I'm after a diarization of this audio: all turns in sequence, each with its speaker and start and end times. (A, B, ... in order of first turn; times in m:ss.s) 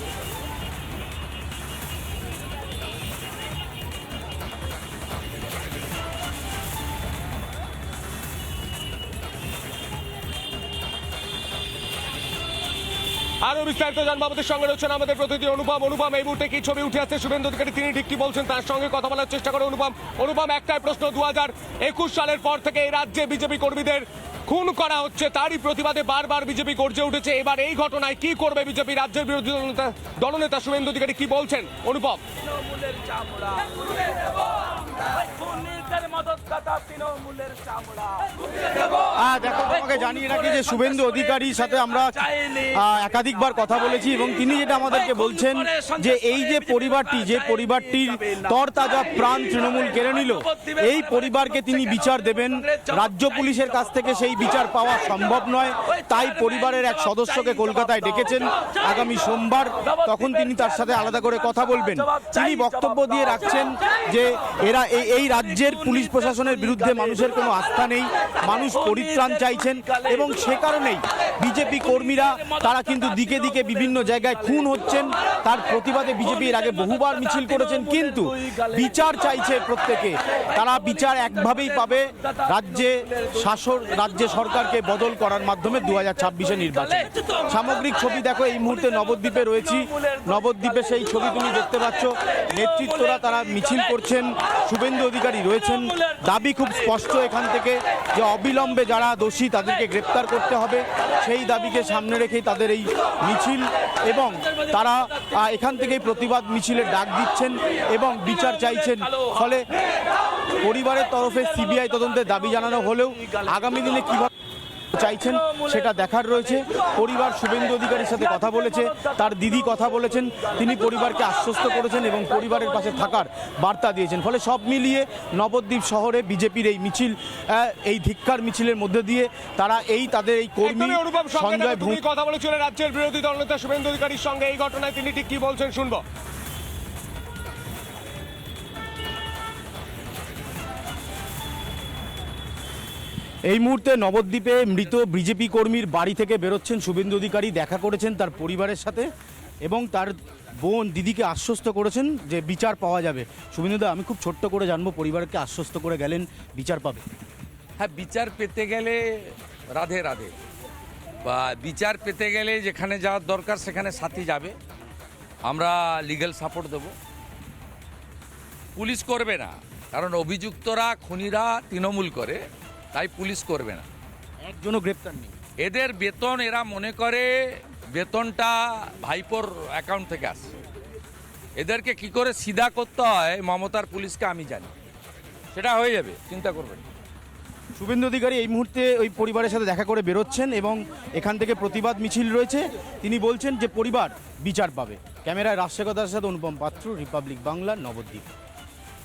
0:13.4-0:32.2 A
0:39.1-1:49.6 B
1:50.6-1:54.3 B
1:54.9-2:12.0 B
2:10.6-2:16.0 A
2:23.5-2:29.1 B
2:29.6-2:37.0 B
2:37.8-2:40.3 C
2:41.2-2:44.6 C
2:45.4-2:46.9 C
2:48.8-2:53.8 C
2:54.4-2:55.3 B
2:55.6-3:00.5 C
3:01.6-3:04.7 C
3:05.5-3:06.8 C
3:07.8-3:18.3 B